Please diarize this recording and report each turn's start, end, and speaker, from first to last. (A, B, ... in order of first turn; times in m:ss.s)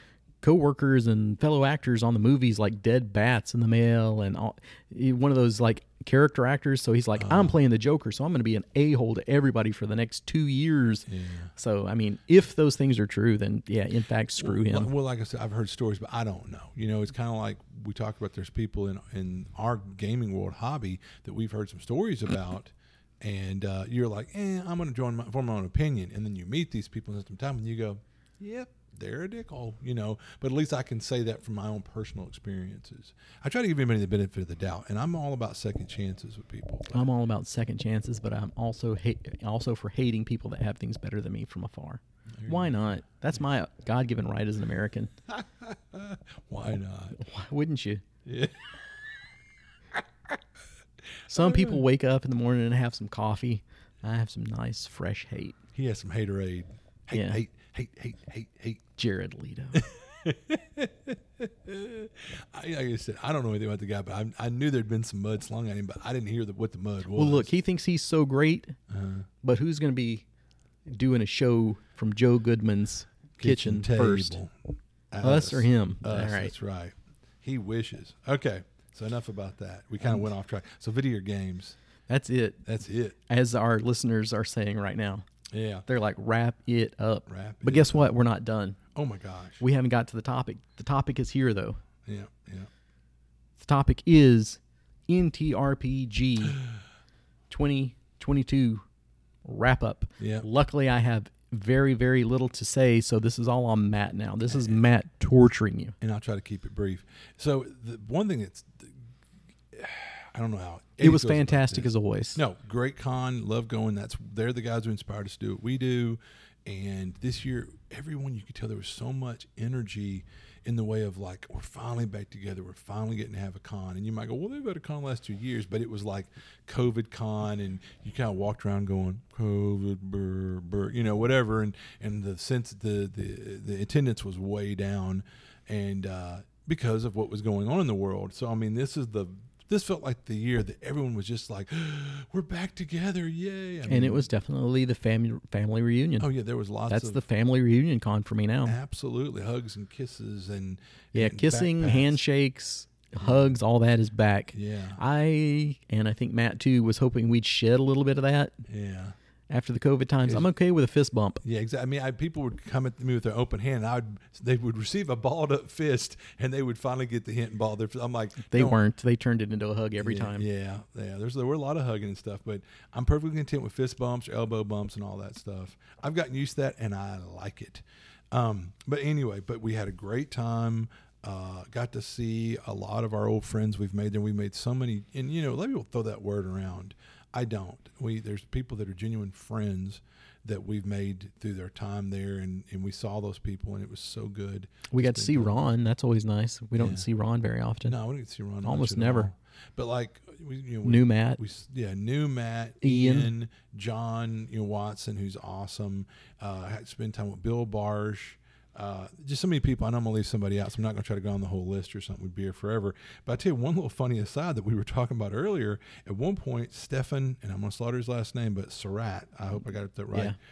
0:00.4-0:14.9 A
0:07.2-0:07.6 B
0:11.1-0:11.5 B
0:14.4-0:37.1 B
0:36.9-0:45.1 A
0:42.4-0:43.0 B
0:45.3-0:47.2 B
0:47.2-0:48.0 A
0:48.2-0:48.8 B
0:51.3-0:55.6 A
0:51.3-0:51.8 B
0:55.7-0:58.8 B
0:57.1-0:57.4 A
0:59.0-0:59.9 A
0:59.7-1:07.5 B
1:07.1-1:08.8 A
1:08.9-1:09.3 B
1:09.4-1:10.2 A
1:10.9-1:14.4 A
1:13.4-1:14.5 B
1:15.1-1:21.8 B
1:15.2-1:16.5 A
1:22.1-1:22.6 A
1:22.6-1:23.2 B
1:23.3-1:25.2 A
1:25.5-1:25.9 B
1:25.9-1:28.8 A
1:27.3-1:28.2 B
1:29.0-1:29.6 B
1:29.6-1:31.8 A
1:32.0-1:32.7 B
1:33.6-1:36.6 A
1:37.5-1:38.8 A
1:39.4-1:46.0 A
1:40.2-1:40.5 B
1:44.5-1:44.8 B
1:46.0-1:49.0 B
1:49.7-2:24.3 B
1:51.0-1:52.4 A
2:23.9-2:26.3 A
2:26.2-2:27.2 B
2:26.9-2:28.8 A
2:28.6-2:32.2 B
2:31.1-2:38.6 A
2:33.2-2:33.5 B
2:34.5-2:35.0 B
2:38.7-2:39.2 B
2:39.5-2:41.4 A
2:41.4-2:48.8 B
2:48.5-2:50.4 A
2:50.0-3:15.6 B
3:14.9-3:18.0 A
3:16.8-3:17.1 B
3:17.9-3:40.4 B
3:18.6-3:19.3 A
3:20.8-3:21.4 A
3:22.8-3:23.3 A